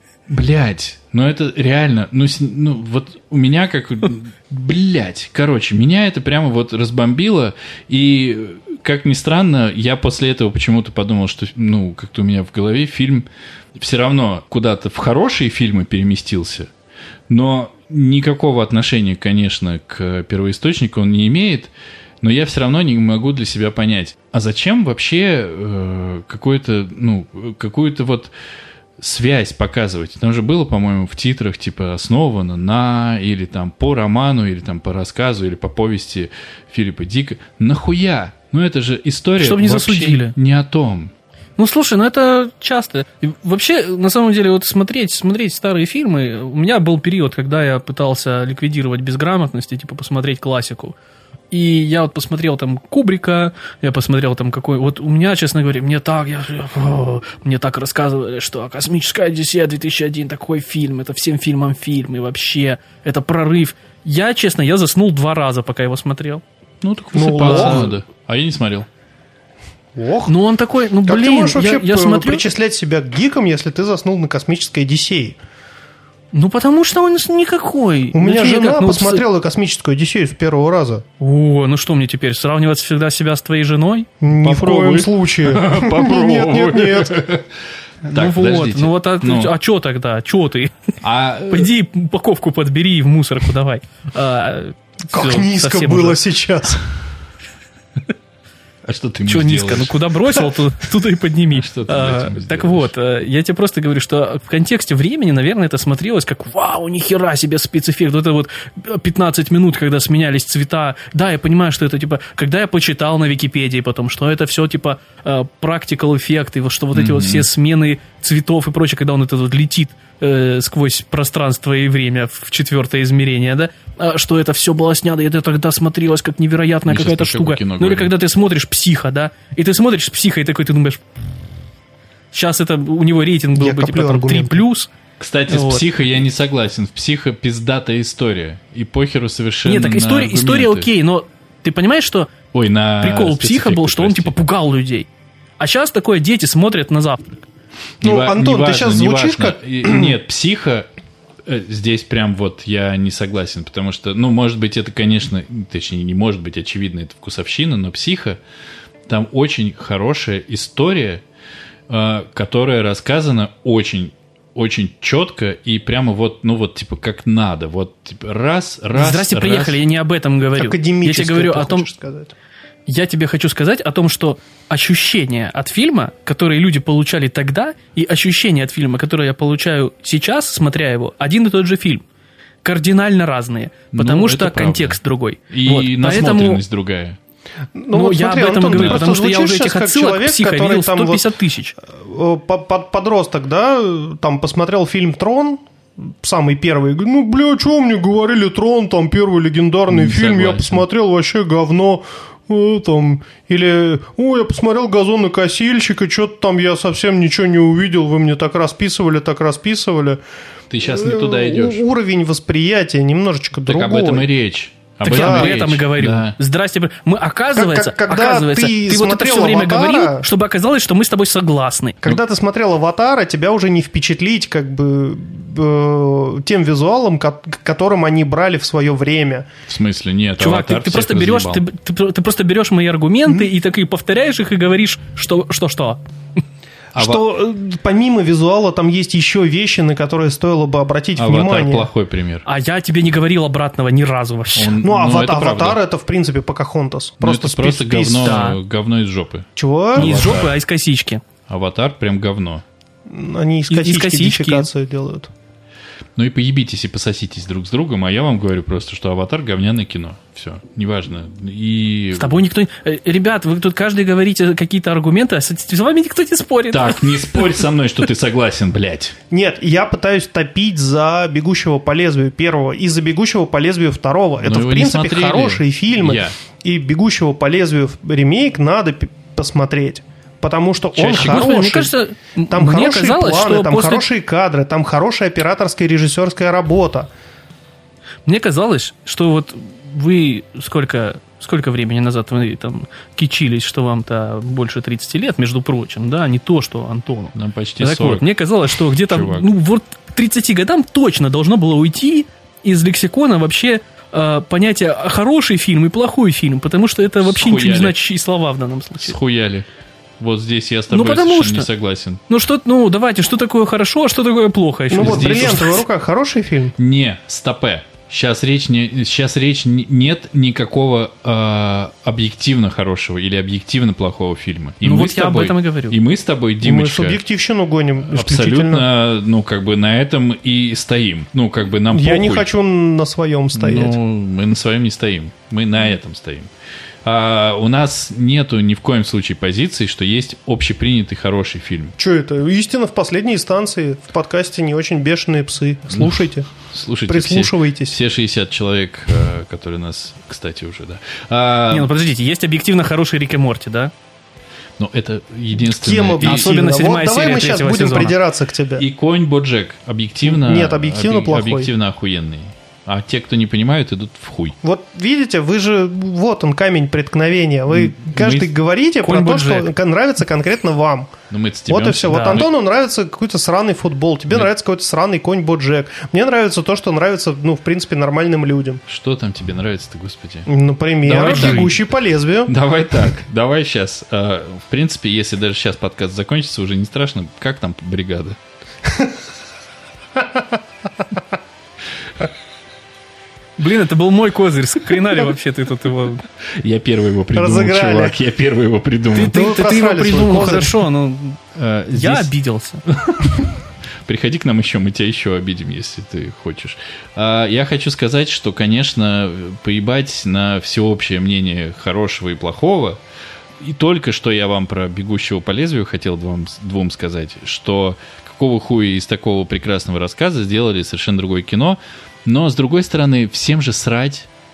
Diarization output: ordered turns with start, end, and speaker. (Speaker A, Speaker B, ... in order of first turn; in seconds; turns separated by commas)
Speaker A: 0.3-16.7, Speaker A: 17.3-28.3, Speaker A: 29.0-41.1, Speaker B: 39.4-40.4, Speaker B: 41.6-51.0, Speaker B: 51.5-66.4, Speaker A: 66.8-68.9, Speaker C: 67.1-67.9, Speaker B: 67.4-67.9, Speaker C: 70.0-70.4, Speaker B: 70.3-72.5, Speaker C: 71.0-75.4, Speaker B: 76.3-79.2, Speaker C: 78.1-81.0, Speaker B: 81.2-84.1, Speaker C: 84.2-87.3, Speaker A: 84.4-87.5, Speaker B: 88.1-90.7, Speaker A: 88.1-89.5, Speaker A: 91.0-91.7, Speaker B: 91.5-96.2, Speaker C: 95.1-96.8, Speaker A: 98.8-100.0, Speaker B: 99.3-131.0, Speaker A: 101.5-102.9, Speaker A: 116.9-117.5, Speaker A: 126.9-128.1, Speaker B: 132.3-134.9, Speaker C: 133.6-134.6, Speaker A: 135.2-140.9, Speaker B: 135.5-135.9, Speaker B: 139.7-142.4, Speaker A: 142.5-144.3, Speaker B: 143.0-145.1, Speaker B: 145.6-147.5, Speaker C: 148.0-150.1, Speaker A: 148.0-150.9, Speaker A: 151.4-158.4, Speaker A: 159.1-161.2, Speaker A: 161.9-169.8, Speaker B: 168.9-171.9, Speaker C: 170.6-172.3, Speaker B: 172.9-182.0, Speaker B: 182.6-186.6, Speaker A: 183.9-185.0, Speaker A: 185.5-187.2, Speaker C: 187.8-191.3, Speaker B: 187.9-191.8, Speaker A: 188.7-189.1, Speaker C: 191.9-210.2, Speaker A: 199.9-200.8, Speaker A: 210.7-211.8, Speaker C: 210.8-214.3, Speaker A: 213.7-216.4, Speaker B: 215.0-222.0, Speaker C: 215.1-215.6, Speaker C: 217.5-220.3, Speaker C: 222.0-229.5, Speaker A: 229.7-231.6, Speaker B: 230.4-236.0, Speaker A: 236.9-237.2, Speaker C: 236.9-241.9, Speaker A: 241.2-242.5, Speaker B: 242.5-244.8, Speaker A: 244.6-245.8, Speaker C: 244.8-248.5, Speaker A: 247.2-250.6, Speaker B: 248.1-248.6, Speaker C: 249.6-250.2, Speaker B: 250.0-251.2, Speaker A: 251.5-252.6, Speaker C: 253.1-255.3, Speaker B: 253.7-254.7, Speaker A: 256.2-262.4, Speaker B: 262.1-267.6, Speaker A: 266.7-269.1, Speaker C: 269.3-281.9, Speaker A: 274.4-276.4, Speaker B: 281.0-284.1, Speaker A: 281.1-281.4, Speaker C: 282.5-287.1, Speaker B: 288.3-309.2, Speaker A: 297.3-298.3, Speaker A: 299.0-299.5, Speaker A: 307.2-308.0, Speaker A: 309.0-309.7, Speaker A: 310.2-312.2, Speaker B: 310.9-311.7, Speaker B: 312.3-315.8, Speaker C: 314.9-316.8, Speaker A: 315.0-315.7, Speaker A: 316.8-327.2, Speaker B: 324.8-326.0, Speaker C: 326.6-328.9, Speaker A: 328.0-332.5, Speaker C: 331.9-334.0, Speaker A: 333.5-336.5, Speaker A: 337.0-342.0, Speaker C: 342.0-346.5, Speaker A: 345.9-351.9, Speaker C: 347.1-348.0, Speaker B: 351.7-353.9, Speaker A: 354.8-356.5, Speaker C: 355.6-358.9, Speaker B: 356.2-358.2, Speaker A: 358.8-364.6, Speaker C: 360.2-361.7, Speaker C: 364.6-371.1, Speaker A: 367.7-368.5, Speaker B: 369.0-369.7, Speaker A: 371.3-372.5, Speaker C: 371.7-378.8, Speaker B: 372.1-372.4, Speaker A: 378.9-380.5, Speaker C: 380.5-382.5, Speaker A: 381.0-381.8, Speaker B: 381.1-381.7, Speaker A: 382.5-388.4, Speaker B: 393.6-396.2, Speaker A: 396.5-399.4, Speaker C: 397.4-398.2, Speaker B: 399.1-401.4, Speaker C: 399.2-400.8, Speaker A: 401.6-402.3, Speaker B: 401.9-402.9, Speaker A: 403.1-403.5, Speaker A: 404.1-413.0, Speaker A: 413.6-424.3